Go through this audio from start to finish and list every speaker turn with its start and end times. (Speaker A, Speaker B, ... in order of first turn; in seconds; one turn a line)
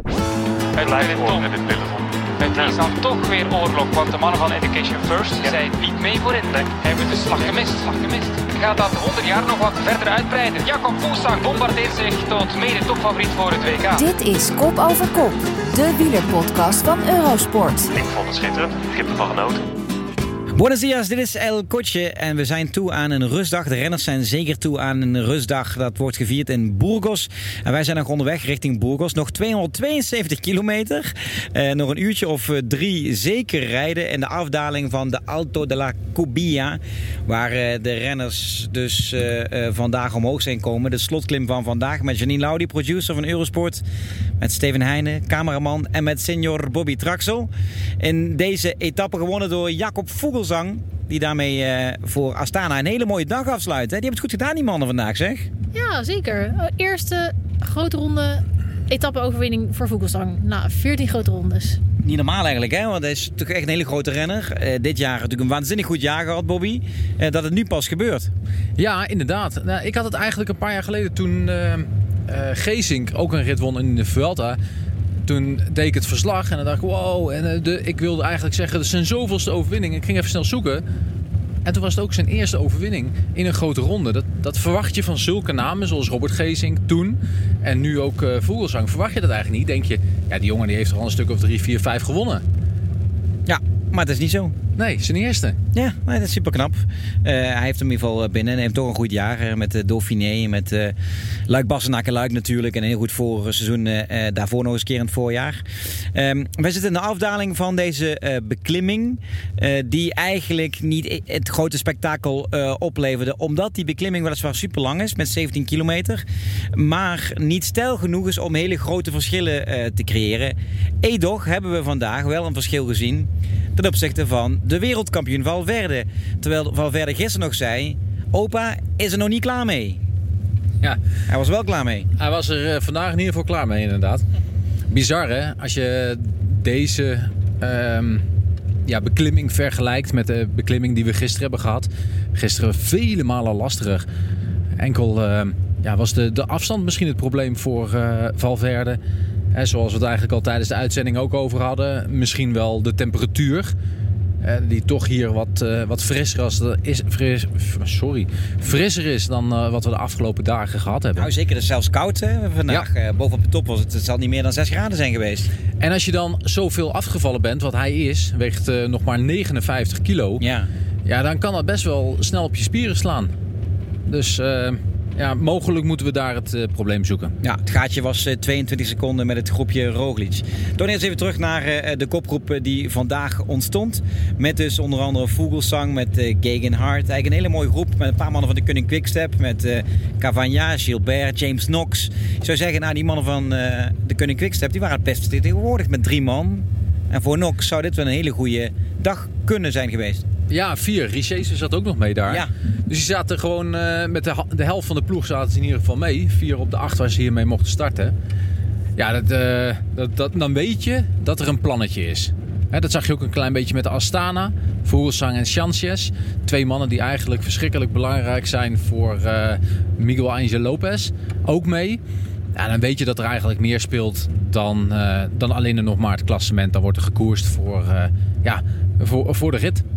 Speaker A: 0.8-1.5
Speaker B: 0.8-2.8
Speaker A: 2.4-14.1
Speaker C: 13.9-17.9
Speaker B: 17.9-19.6
Speaker D: 20.6-43.8
Speaker D: 44.4-55.5
Speaker E: 55.7-61.8
Speaker D: 62.0-68.3
Speaker F: 68.8-74.6
Speaker F: 75.2-80.8
Speaker F: 81.7-92.4
Speaker D: 93.5-94.5
Speaker F: 94.8-95.6
Speaker D: 95.7-100.9
Speaker D: 101.5-105.6
Speaker D: 106.1-116.2
Speaker D: 116.8-130.0
Speaker D: 131.3-132.1
Speaker F: 132.2-134.2
Speaker F: 134.9-138.3
Speaker F: 138.9-144.1
Speaker F: 144.8-149.0
Speaker F: 149.5-153.7
Speaker F: 154.4-161.3
Speaker D: 161.2-165.5
Speaker F: 165.8-170.4
Speaker D: 170.4-170.7
Speaker F: 171.1-173.3
Speaker F: 174.1-177.3
Speaker D: 177.4-200.2
Speaker F: 200.5-208.1
Speaker F: 209.0-222.0
Speaker F: 222.6-229.8